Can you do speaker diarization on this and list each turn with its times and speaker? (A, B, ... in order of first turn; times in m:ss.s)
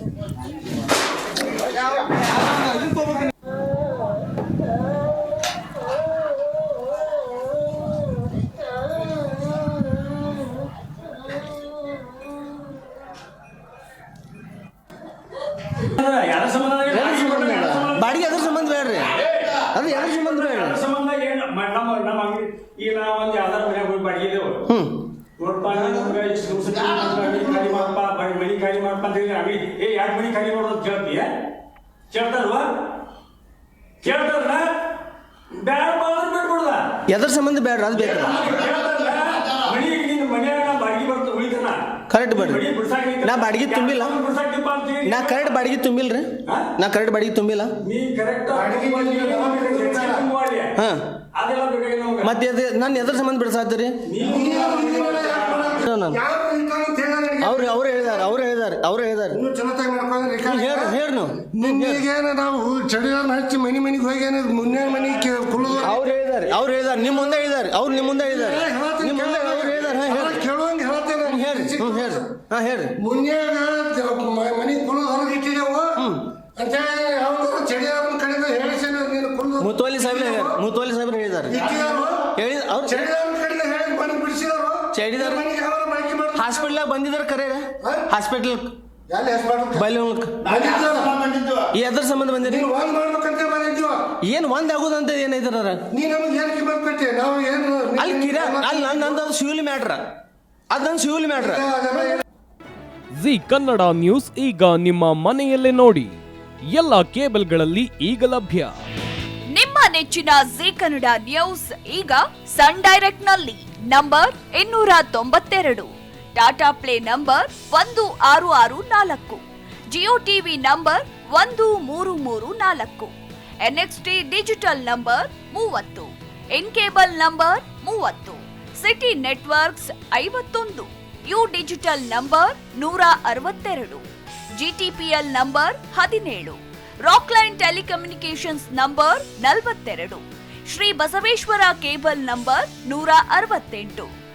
0:16.0-0:17.8 A
0:16.9-0:20.8 B
0:17.1-0:17.8 C
0:19.9-0:24.5 A
0:20.4-0:20.7 C
0:24.7-0:25.0 B
0:25.4-0:31.2 A
0:28.5-0:28.9 C
0:32.1-0:32.6 A
0:34.1-0:34.6 A
0:35.6-0:36.8 A
0:37.1-0:38.6 B
0:38.0-0:38.4 C
0:38.5-0:41.8 A
0:40.6-0:41.6 C
0:42.1-0:42.7 B
0:42.5-0:43.9 C
0:42.5-0:45.1 A
0:43.2-0:44.2 B
0:45.0-0:47.8 B
0:47.9-0:50.7 A
0:48.5-0:50.3 D
0:50.8-0:51.0 B
0:51.4-0:52.2 A
0:52.2-0:54.0 B
0:54.1-0:55.6 A
0:54.2-0:58.3 D
0:55.8-0:56.2 B
0:57.4-0:59.4 B
0:59.3-1:01.0 D
1:00.4-1:02.0 B
1:01.5-1:06.0 D
1:05.7-1:10.4 B
1:08.2-1:12.2 D
1:11.2-1:12.9 B
1:13.0-1:16.0 D
1:16.0-1:16.3 B
1:16.6-1:20.6 D
1:19.6-1:21.7 B
1:21.5-1:22.3 D
1:22.3-1:23.0 B
1:22.9-1:26.7 D
1:24.9-1:25.4 B
1:26.3-1:28.7 B
1:27.8-1:28.1 D
1:29.1-1:29.9 D
1:29.7-1:30.6 B
1:30.4-1:31.3 D
1:31.7-1:32.7 B
1:32.4-1:34.1 D
1:34.2-1:35.8 B
1:35.9-1:39.2 D
1:38.0-1:40.0 B
1:40.7-1:41.6 B
1:41.4-1:42.2 D
1:43.2-1:46.1 E
1:46.7-1:48.7 E
1:49.5-2:03.1 C
2:03.6-2:14.0 C
2:14.6-2:24.1 C